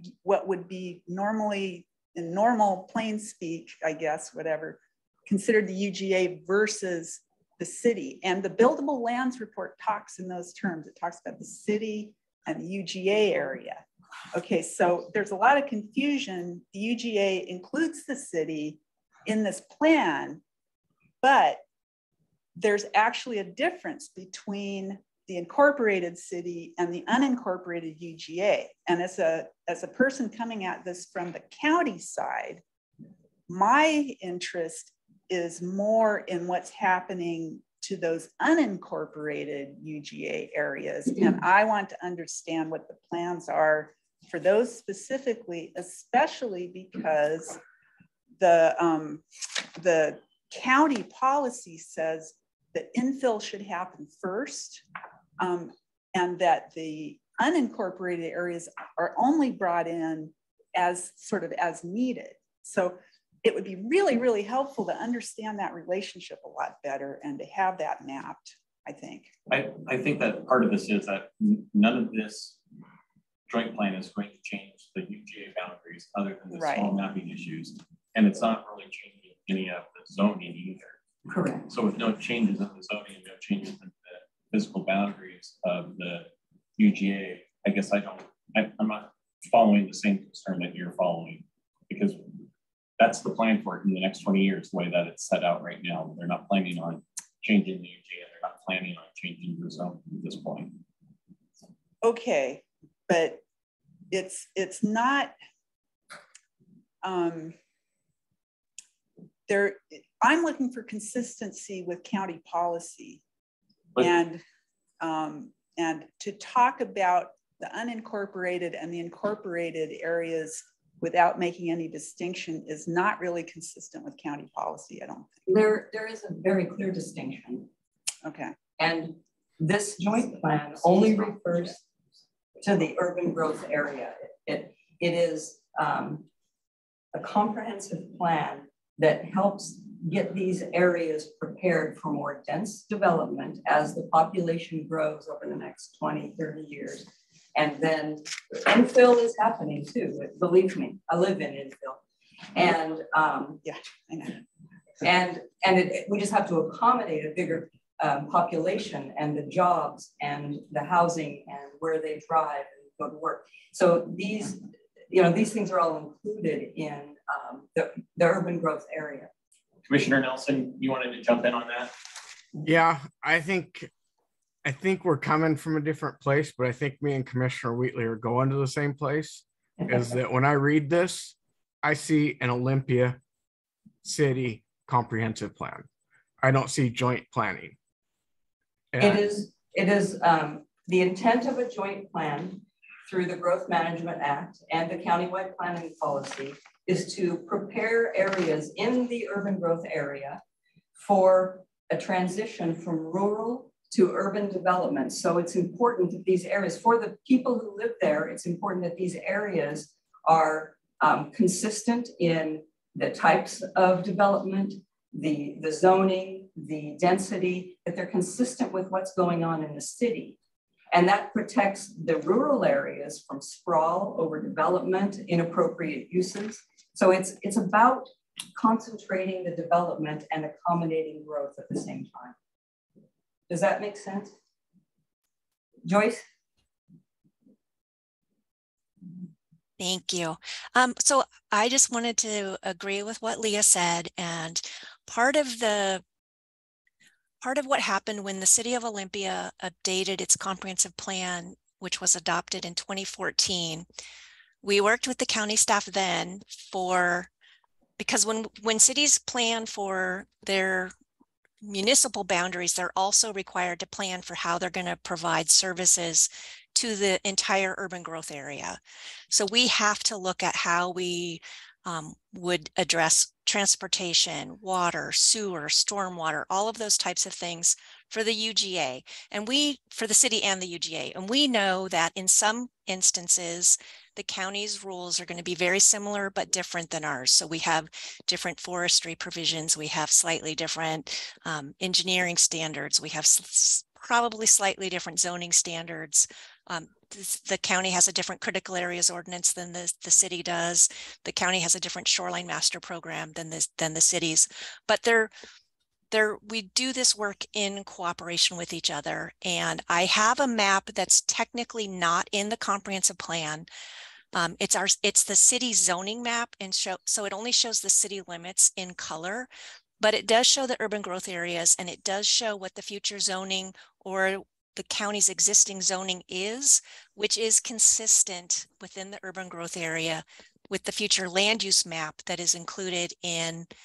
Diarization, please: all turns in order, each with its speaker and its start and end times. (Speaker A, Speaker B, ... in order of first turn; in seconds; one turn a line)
Speaker A: 0.2-20.4
Speaker A: 21.2-21.6
Speaker A: 22.6-32.6
Speaker A: 33.5-47.6
Speaker A: 48.4-49.2
Speaker A: 49.8-54.8
Speaker A: 55.4-69.3
Speaker B: 69.5-72.6
Speaker B: 73.5-81.0
Speaker A: 76.5-76.9
Speaker C: 81.3-81.7
Speaker B: 81.7-92.2
Speaker B: 93.0-100.8
Speaker A: 102.0-103.4
Speaker A: 104.1-105.3
Speaker A: 107.0-107.5
Speaker A: 109.5-113.2
Speaker A: 114.0-114.4
Speaker A: 115.0-125.4
Speaker C: 125.5-127.7
Speaker A: 128.2-128.5
Speaker C: 128.8-131.8
Speaker C: 132.6-136.2
Speaker C: 137.1-152.0
Speaker C: 152.5-153.6
Speaker A: 153.6-154.4
Speaker C: 155.0-169.3
Speaker B: 169.9-171.9
Speaker D: 172.6-173.9
Speaker D: 174.6-183.2
Speaker D: 184.0-185.9
Speaker D: 186.4-187.8
Speaker D: 188.9-189.3
Speaker C: 189.0-200.4
Speaker C: 201.0-220.4
Speaker C: 220.9-232.3
Speaker C: 233.5-234.3
Speaker C: 235.8-236.2
Speaker E: 239.8-246.0
Speaker E: 247.4-253.8
Speaker E: 254.6-257.3
Speaker E: 258.0-260.9
Speaker E: 261.6-268.8
Speaker E: 269.3-305.3
Speaker E: 306.1-313.7
Speaker E: 314.3-319.5
Speaker E: 320.0-333.7